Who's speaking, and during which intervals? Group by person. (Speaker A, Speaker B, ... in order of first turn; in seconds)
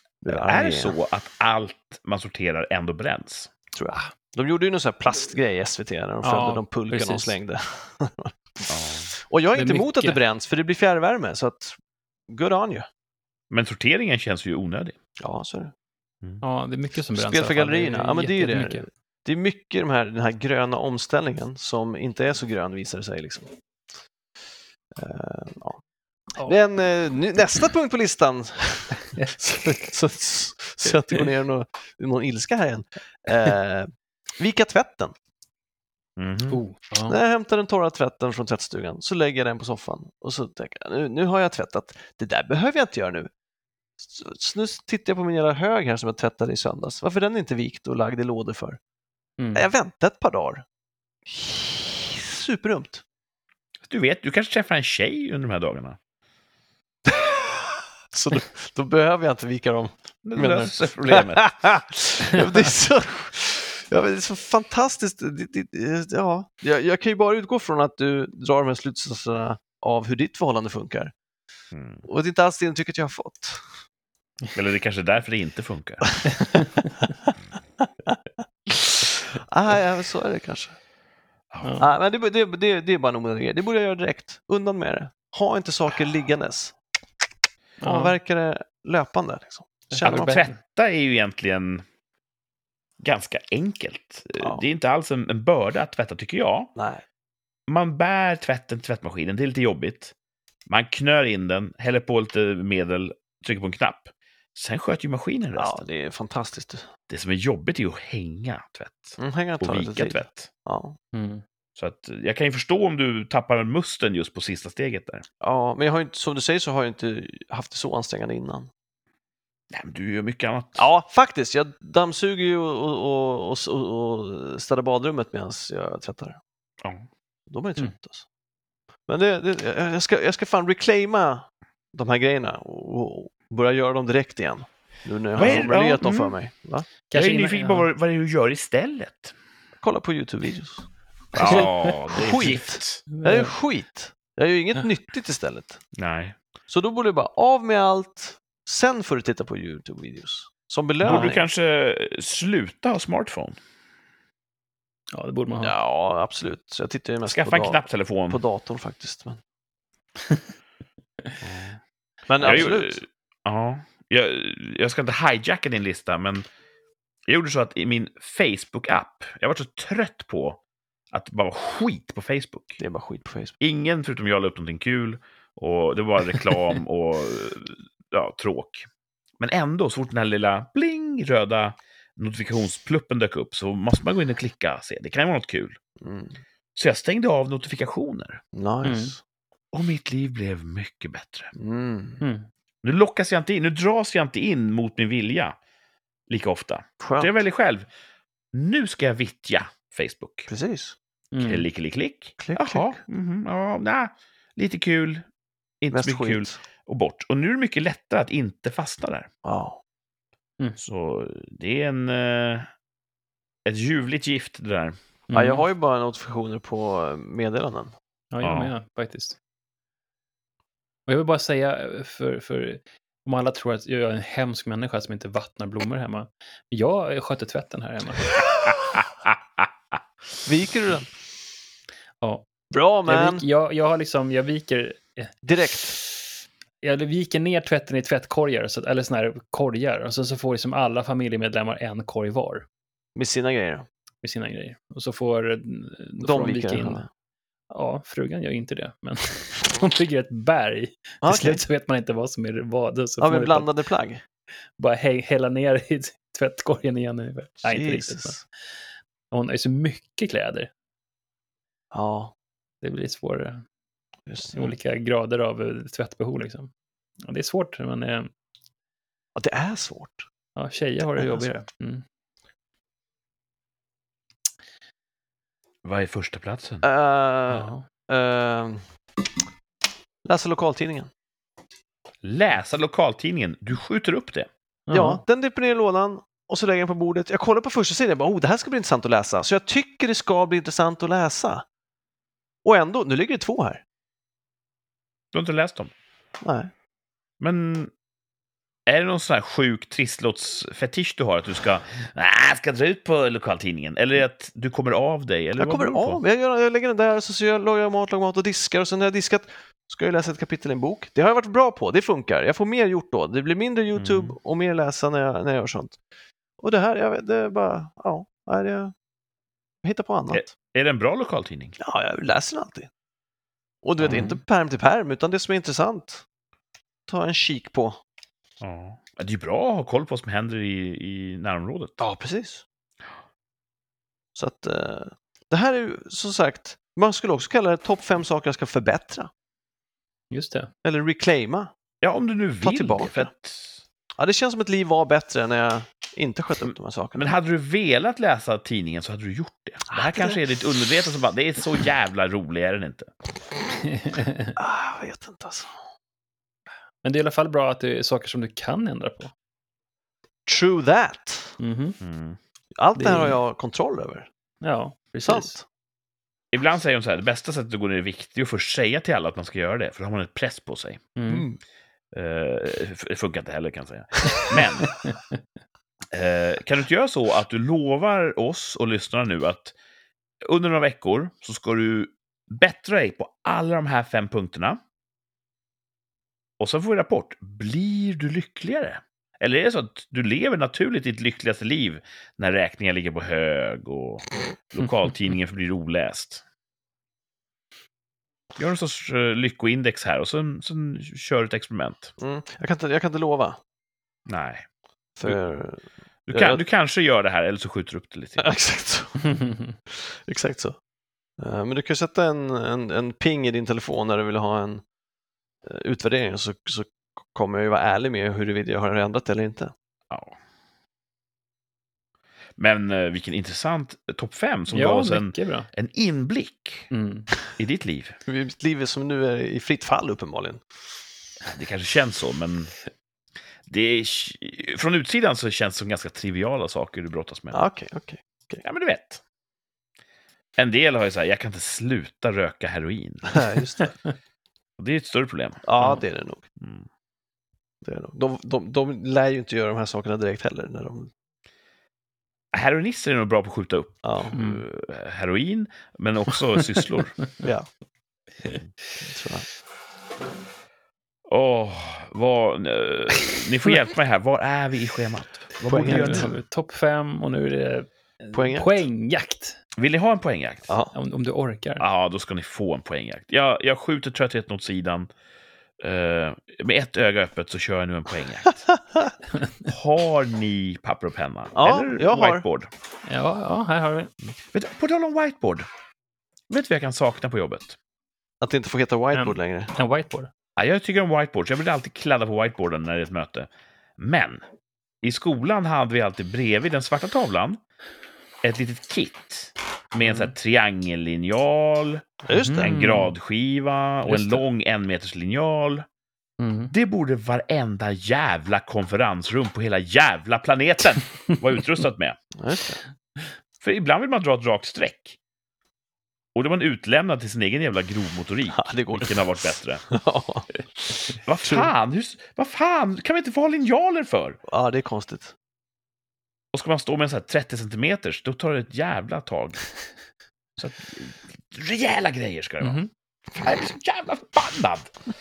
Speaker A: 0.2-0.9, 3.8-11.8, 12.3-12.9, 15.2-15.7, 17.1-23.5, 25.0-25.8, 26.4-33.9, 34.4-35.1, 37.1-43.3, 44.0-48.8, 49.5-50.6, 51.3-53.0, 57.1-71.1, 72.1-73.6, 78.7-80.8, 81.8-86.8, 87.8-90.4, 96.8-97.0, 105.6-106.9, 109.2-111.0, 115.4-118.7, 120.8-126.4, 127.5-128.2, 129.1-136.9, 139.8-145.8, 146.7-151.4, 155.6-159.4, 162.3-163.0, 172.8-173.6, 186.0-186.4, 188.5-189.2, 191.6-192.2, 197.0-197.3, 200.5-201.0, 202.4-203.0, 205.9-206.6, 209.4-209.8, 215.3-217.9, 230.4-231.1, 232.7-233.4, 235.4-236.0, 243.2-243.9, 246.2-247.1, 251.2-251.6, 253.2-254.2, 257.6-258.4, 261.9-262.3, 264.3-264.7, 269.4-270.2, 271.2-271.5, 276.8-278.8, 280.2-281.1, 284.9-291.6, 292.6-293.8, 296.4-296.7, 305.6-316.0, 316.6-318.9, 319.8-320.5, 321.8-322.9, 323.8-326.2, 327.1-328.0, 332.0-332.6, 334.4-339.3, 340.8-341.7, 342.6-343.3, 344.2-347.3, 349.9-350.4, 354.6-355.7, 360.5-361.6, 362.8-364.3, 365.2-365.6, 371.3-371.6, 402.2-403.6, 405.2-406.6, 408.4-410.8, 411.4-414.8, 415.6-419.7, 428.3-430.6, 437.5-438.6, 443.3-443.9, 445.7-446.4, 447.8-451.1, 454.0-454.4, 459.0-459.5, 465.6-466.3, 468.3-468.9, 481.6-482.4, 488.4-489.7, 502.3-502.8, 512.4-512.8, 518.5-519.3, 519.9-521.7, 524.5-525.3
Speaker B: 0.3-3.5, 8.7-9.1, 13.5-15.0, 36.2-36.6, 53.8-56.0, 60.2-61.4, 71.7-72.0, 74.5-76.1, 81.5-81.8, 90.0-91.8, 93.0-96.7, 97.7-100.1, 100.7-105.8, 107.1-110.5, 111.8-115.2, 119.7-120.9, 126.8-127.1, 135.4-136.4, 137.1-139.3, 141.3-143.0, 146.0-146.4, 151.0-153.6, 157.3-158.4, 161.4-161.8, 162.4-166.4, 167.3-170.6, 171.1-172.8, 173.6-178.9, 179.4-185.8, 186.8-188.4, 189.7-191.5, 192.8-195.6, 196.3-197.9, 198.5-200.5, 201.4-205.3, 205.8-209.3, 210.8-212.7, 213.7-215.0, 218.4-218.7, 228.9-229.7, 275.8-276.9, 282.2-284.5, 295.3-295.9, 297.4-297.9, 298.9-306.2, 313.9-314.4, 320.3-321.8, 324.0-324.3, 328.6-332.0, 342.0-343.8, 346.7-353.1, 362.0-362.4, 366.5-371.1, 372.1-374.9, 376.1-379.8, 380.4-384.8, 386.6-396.4, 398.6-402.1, 404.3-404.6, 406.3-408.5, 420.1-420.4, 422.6-426.9, 427.6-428.2, 431.4-432.7, 433.7-437.6, 438.6-439.2, 440.6-443.5, 444.8-445.7, 446.6-446.9, 452.5-457.2, 461.3-466.3, 469.8-470.7, 471.8-475.1, 475.8-478.6, 479.6-482.7, 484.4-485.7, 486.5-487.8, 490.6-494.4, 495.0-497.6, 498.4-505.9, 506.7-512.2, 513.6-515.2, 516.4-519.9, 521.2-524.4, 526.5-529.6, 530.6-532.8, 533.4-534.9
Speaker C: 6.2-7.3, 9.6-10.2, 16.4-18.9, 36.5-37.2, 49.4-49.7, 76.4-76.9, 81.6-81.9, 87.8-88.2, 89.9-90.6, 111.1-111.4, 135.4-135.7, 137.1-137.9, 143.1-143.5, 151.0-151.3, 155.1-155.7, 188.8-189.2, 192.2-192.5, 201.3-201.7, 215.3-215.7, 218.3-219.4, 221.1-228.4, 232.2-232.5, 233.1-235.3, 236.8-242.7, 244.2-247.0, 247.7-253.7, 254.8-258.4, 259.3-260.7, 262.8-263.6, 264.5-266.7, 267.3-268.3, 270.6-272.0, 277.5-277.9, 284.9-285.2, 324.1-324.4, 340.3-340.7, 353.9-354.6, 357.0-359.3, 361.6-362.0, 363.0-363.4, 364.6-365.5, 371.2-371.5, 374.9-375.1, 409.3-409.7, 424.7-425.7, 426.9-427.3, 454.3-454.6, 465.8-469.6, 470.9-471.8, 483.1-484.1, 489.1-490.3, 500.0-500.3, 502.3-503.1, 504.1-504.4, 506.4-506.7, 532.6-532.9